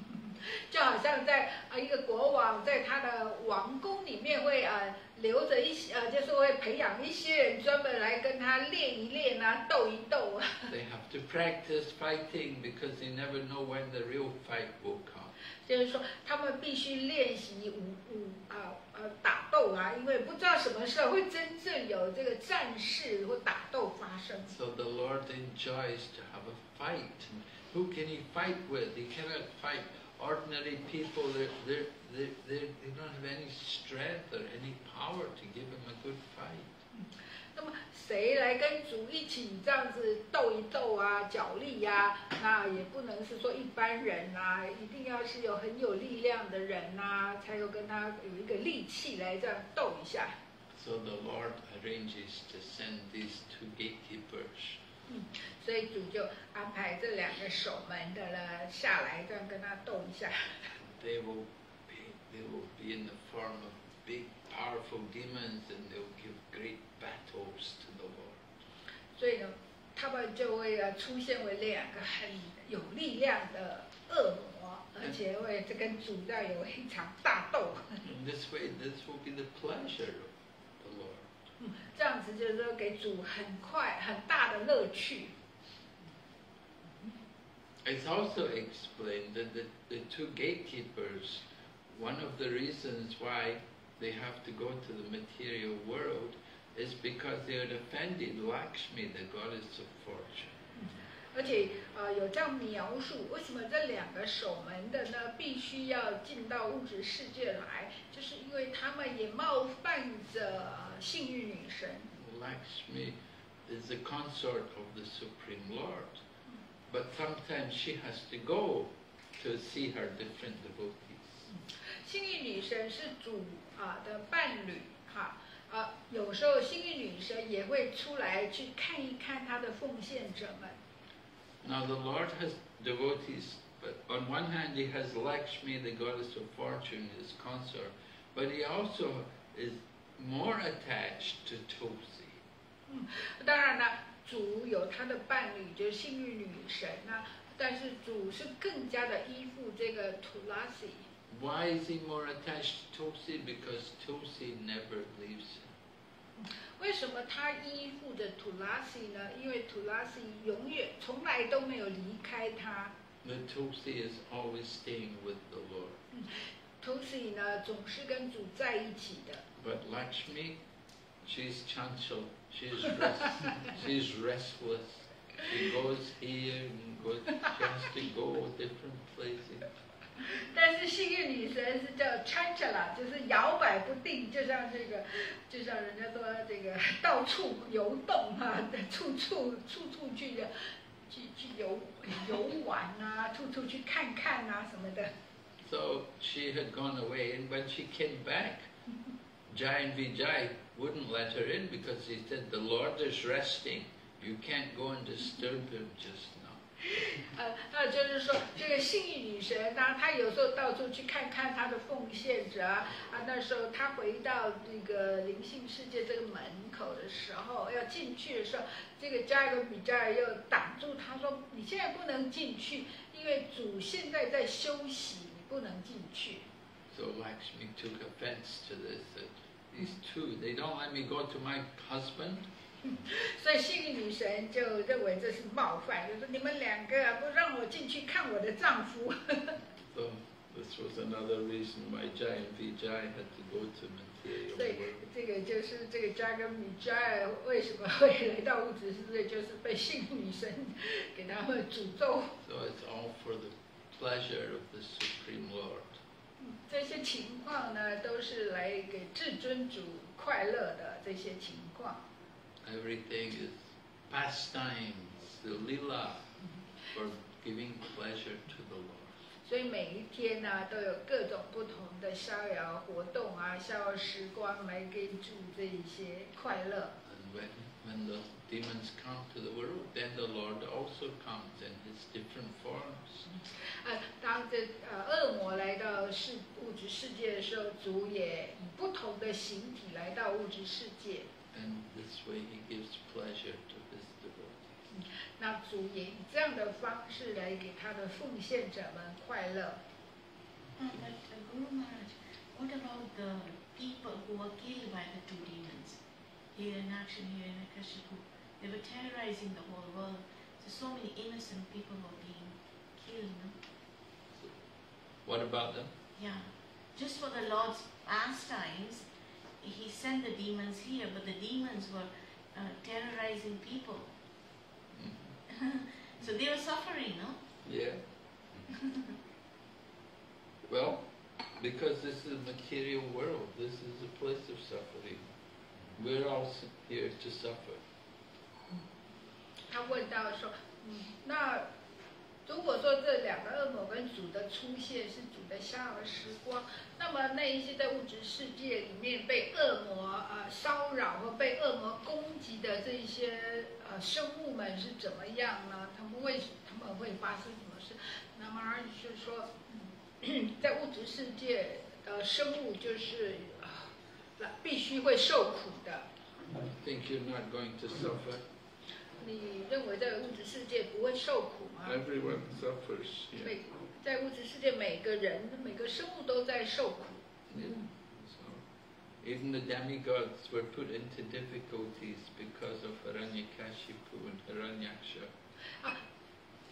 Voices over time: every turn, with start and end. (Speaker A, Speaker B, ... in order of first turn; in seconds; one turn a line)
Speaker A: 0.2-10.7
Speaker B: 10.7-15.3
Speaker A: 15.6-24.5
Speaker B: 24.5-36.7
Speaker A: 36.9-50.4
Speaker B: 50.7-54.8
Speaker A: 55.1-60.7
Speaker B: 60.8-68.4
Speaker A: 69.2-78.1
Speaker B: 78.0-81.3
Speaker A: 81.6-85.3
Speaker B: 87.8-100.6
Speaker A: 100.8-112.1
Speaker B: 112.1-116.2
Speaker B: 116.9-121.5
Speaker A: 121.5-130.8
Speaker B: 131.6-142.4
Speaker A: 142.9-151.1
Speaker B: 151.3-155.7
Speaker A: 156.4-162.9
Speaker B: 163.2-166.0
Speaker A: 166.1-169.4
Speaker B: 169.6-170.6
Speaker B: 171.2-179.7
Speaker A: 180.2-190.5
Speaker A: 191.1-195.1
Speaker B: 195.6-198.7
Speaker B: 199.5-206.6
Speaker A: 207.0-226.4
Speaker B: 226.9-232.5
Speaker A: 232.9-239.6
Speaker B: 239.9-245.1
Speaker A: 244.5-252.3
Speaker B: 252.4-256.0
Speaker A: 256.4-262.0
Speaker B: 262.6-266.3
Speaker B: 266.9-269.1
Speaker A: 269.4-276.9
Speaker B: 277.0-283.3
Speaker A: 283.3-291.3
Speaker B: 291.5-294.7
Speaker A: 294.9-299.8
Speaker C: 300.8-306.0
Speaker C: 306.5-313.6
Speaker B: 314.3-314.6
Speaker B: 315.2-315.9
Speaker C: 316.2-319.1
Speaker C: 319.6-324.2
Speaker B: 324.9-325.4
Speaker C: 325.6-327.4
Speaker B: 327.6-328.0
Speaker B: 330.7-335.3
Speaker B: 336.0-337.8
Speaker A: 339.7-341.7
Speaker A: 342.5-366.1
Speaker B: 366.6-368.5
Speaker A: 369.2-372.0
Speaker B: 371.8-373.5
Speaker A: 373.4-377.2
Speaker B: 377.5-378.6
Speaker B: 379.2-385.3